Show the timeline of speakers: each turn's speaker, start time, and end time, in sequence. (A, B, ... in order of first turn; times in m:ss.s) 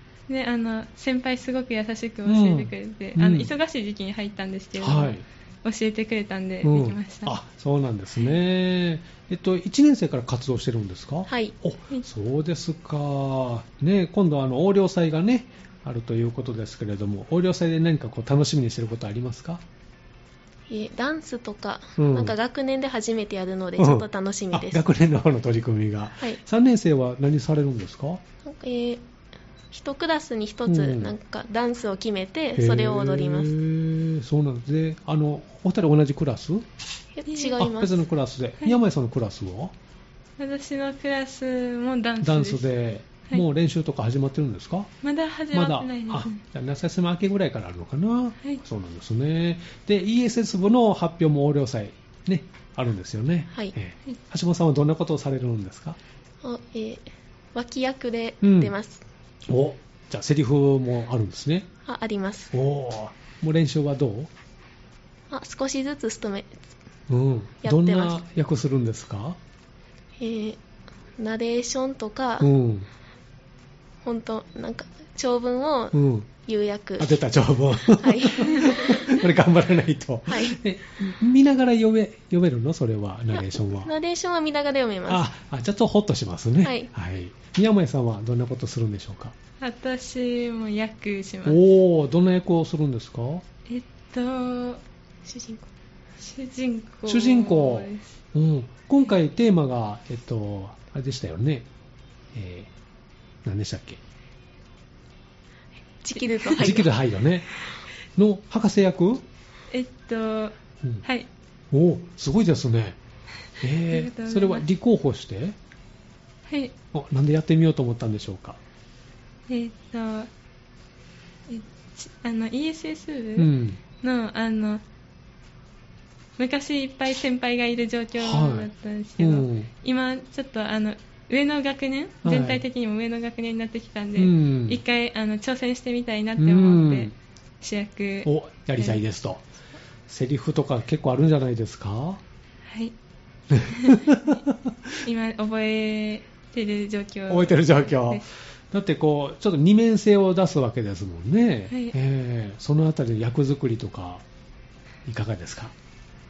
0:00.3-0:07.4 A
0:02.2-0:03.5 B
0:04.8-0:05.2 B
0:06.6-0:19.6 B
0:11.3-0:11.6 C
0:20.7-0:24.8 C
0:22.0-0:22.3 B
0:23.8-0:28.2 B
0:28.4-0:29.0 C
0:29.7-0:33.5 C
0:30.7-0:31.1 B
0:32.6-0:36.6 B
0:37.1-0:38.0 C
0:37.3-0:37.5 A
0:37.6-0:39.7 B
0:40.4-0:42.7 A
0:42.2-0:44.9 B
0:45.0-0:46.4 A
0:45.5-0:56.0 B
0:56.4-0:59.0 C
0:58.4-0:58.7 B
0:59.5-1:01.7 B
1:01.8-1:02.5 C
1:02.5-1:04.3 B
1:05.3-1:06.6 C
1:07.1-1:09.4 B
1:07.6-1:08.2 C
1:10.2-1:10.6 C
1:11.2-1:12.5 C
1:12.4-1:12.9 B
1:14.0-1:17.2 C
1:15.9-1:16.3 B
1:17.0-1:23.9 B
1:17.8-1:19.2 C
1:20.3-1:20.6 C
1:23.3-1:25.3 C
1:25.1-1:29.3 B
1:26.6-1:26.9 C
1:29.6-1:31.6 A
1:31.4-1:33.4 B
1:33.7-1:34.8 A
1:35.2-1:35.7 C
1:36.2-1:38.1 A
1:37.1-1:41.7 B
1:42.3-1:42.7 B
1:43.4-1:44.0 B
1:46.0-1:46.9 C
1:46.2-1:46.7 A
1:46.5-1:47.5 B
1:48.2-1:49.2 B
1:49.7-1:51.3 A
1:51.7-1:53.0 B
1:53.6-1:55.6 B
1:53.9-1:54.6 A
1:56.4-1:56.7 A
1:56.9-1:58.6 B
1:59.5-2:00.3 A
2:01.5-2:04.8 A
2:03.4-2:03.8 B
2:06.4-2:19.0 A
2:08.2-2:09.7 B
2:12.2-2:12.6 B
2:14.2-2:14.8 B
2:16.4-2:17.1 B
2:18.2-2:19.4 B
2:20.1-2:22.2 B
2:22.7-2:22.9 A
2:23.5-2:24.8 B
2:23.6-2:24.4 A
2:25.0-2:28.2 A
2:27.3-2:34.2 B
2:31.7-2:31.9 A
2:35.0-2:35.7 B